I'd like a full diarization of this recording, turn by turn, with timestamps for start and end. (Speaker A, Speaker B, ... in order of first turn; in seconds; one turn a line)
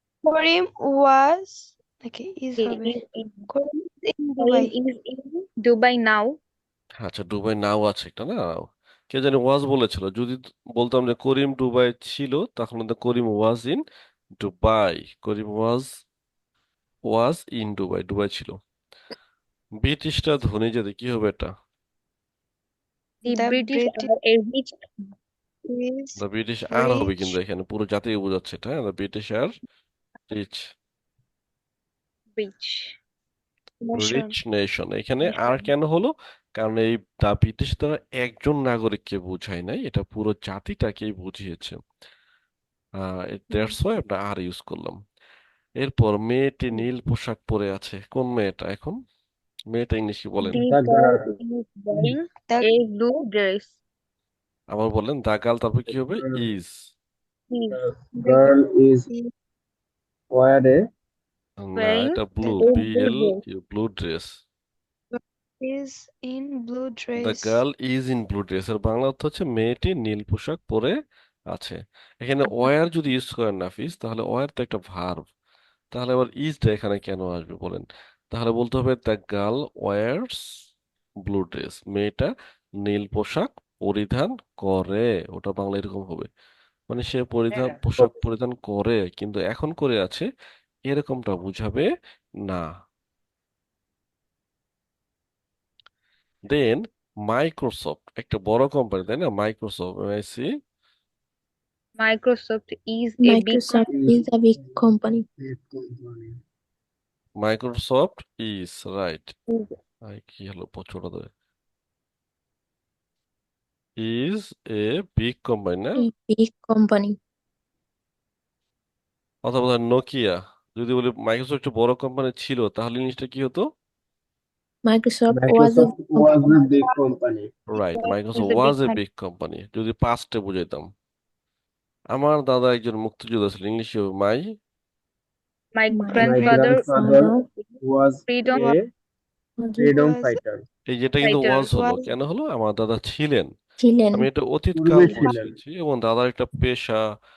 Speaker A: 0.2-4.7
Speaker B: 2.6-3.5
Speaker B: 4.4-6.4
Speaker C: 7.0-13.8
Speaker C: 14.4-15.8
Speaker C: 17.1-18.5
Speaker C: 19.8-21.5
Speaker B: 23.2-25.1
Speaker A: 23.2-24.1
Speaker A: 25.6-27.4
Speaker C: 26.2-29.5
Speaker C: 30.3-30.7
Speaker B: 32.4-32.9
Speaker A: 33.8-34.3
Speaker C: 33.9-41.8
Speaker B: 35.2-35.7
Speaker C: 43.0-45.0
Speaker C: 45.8-49.0
Speaker C: 49.7-50.6
Speaker B: 50.5-53.7
Speaker D: 50.7-51.3
Speaker A: 52.4-52.7
Speaker C: 54.7-56.8
Speaker D: 56.1-56.5
Speaker B: 57.5-58.5
Speaker D: 57.7-59.1
Speaker D: 60.3-60.8
Speaker C: 61.6-64.4
Speaker B: 61.8-63.4
Speaker A: 65.1-67.6
Speaker C: 67.2-71.0
Speaker C: 71.5-75.2
Speaker C: 75.9-80.4
Speaker C: 81.2-82.3
Speaker C: 82.8-86.3
Speaker C: 86.9-90.3
Speaker C: 90.9-91.9
Speaker C: 96.5-100.5
Speaker B: 102.0-103.9
Speaker E: 103.2-105.2
Speaker D: 103.9-104.8
Speaker D: 105.4-106.4
Speaker C: 107.4-109.3
Speaker B: 109.5-109.7
Speaker C: 110.0-111.3
Speaker C: 114.0-116.1
Speaker E: 116.0-117.2
Speaker C: 119.4-123.7
Speaker E: 124.8-126.5
Speaker D: 125.3-127.5
Speaker C: 127.7-130.9
Speaker B: 127.8-129.0
Speaker C: 132.1-134.5
Speaker B: 135.7-138.8
Speaker E: 135.9-137.4
Speaker D: 136.2-138.8
Speaker E: 139.6-139.9
Speaker D: 139.8-140.6
Speaker A: 139.9-140.4
Speaker C: 140.9-143.5
Speaker B: 141.2-141.7
Speaker A: 141.7-142.1
Speaker E: 143.8-144.3
Speaker C: 144.1-147.0
Speaker D: 144.8-145.6